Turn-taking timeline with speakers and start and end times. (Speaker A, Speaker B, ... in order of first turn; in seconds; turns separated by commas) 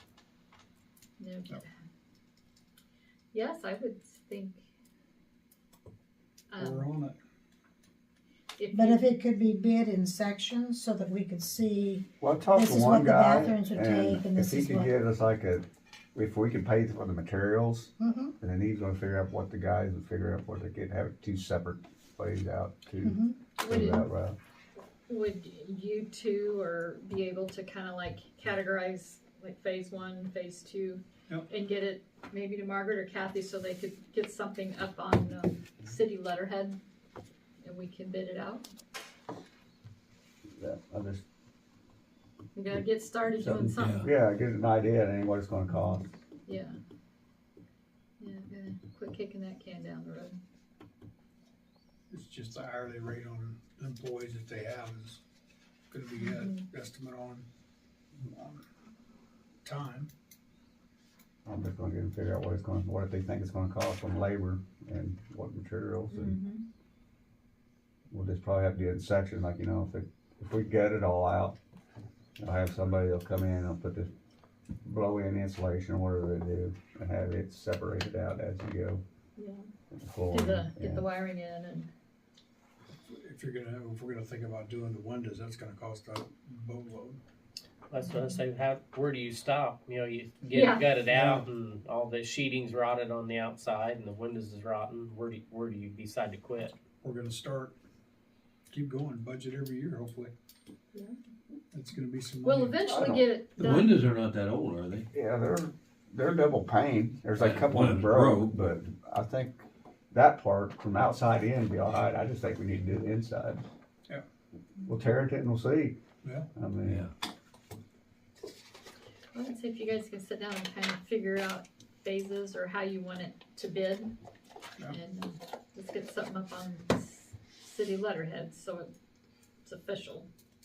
Speaker A: 1.2-1.8, Speaker A: 3.3-4.6, Speaker A: 6.5-6.9, Speaker B: 6.6-7.2, Speaker A: 8.6-9.1, Speaker C: 8.7-14.9, Speaker D: 12.2-17.9, Speaker C: 18.0-18.3, Speaker D: 18.4-24.4, Speaker C: 23.0-23.4, Speaker A: 23.6-24.0, Speaker A: 25.1-36.8, Speaker A: 37.6-38.7, Speaker D: 40.6-41.2, Speaker A: 42.6-44.1, Speaker D: 43.4-46.1, Speaker E: 43.8-44.1, Speaker A: 46.5-46.8, Speaker A: 48.2-50.4, Speaker B: 52.1-55.2, Speaker B: 55.9-57.5, Speaker A: 56.2-56.6, Speaker B: 58.2-58.6, Speaker B: 59.6-60.1, Speaker D: 61.5-66.4, Speaker A: 66.1-66.6, Speaker D: 68.1-71.6, Speaker D: 72.4-74.1, Speaker D: 74.8-79.0, Speaker A: 79.4-79.7, Speaker D: 79.9-81.0, Speaker A: 80.3-81.9, Speaker B: 83.1-87.2, Speaker F: 87.9-96.8, Speaker A: 88.0-88.4, Speaker B: 90.4-91.5, Speaker A: 90.5-90.9, Speaker B: 97.0-97.7, Speaker B: 98.7-100.3, Speaker B: 101.7-102.8, Speaker A: 102.4-103.9, Speaker D: 102.9-103.2, Speaker E: 103.6-105.1, Speaker D: 105.1-113.6, Speaker E: 107.4-108.5, Speaker D: 114.8-116.0, Speaker B: 116.2-116.5, Speaker D: 116.5-117.1, Speaker A: 119.3-124.1, Speaker A: 124.9-128.9, Speaker A: 129.7-130.3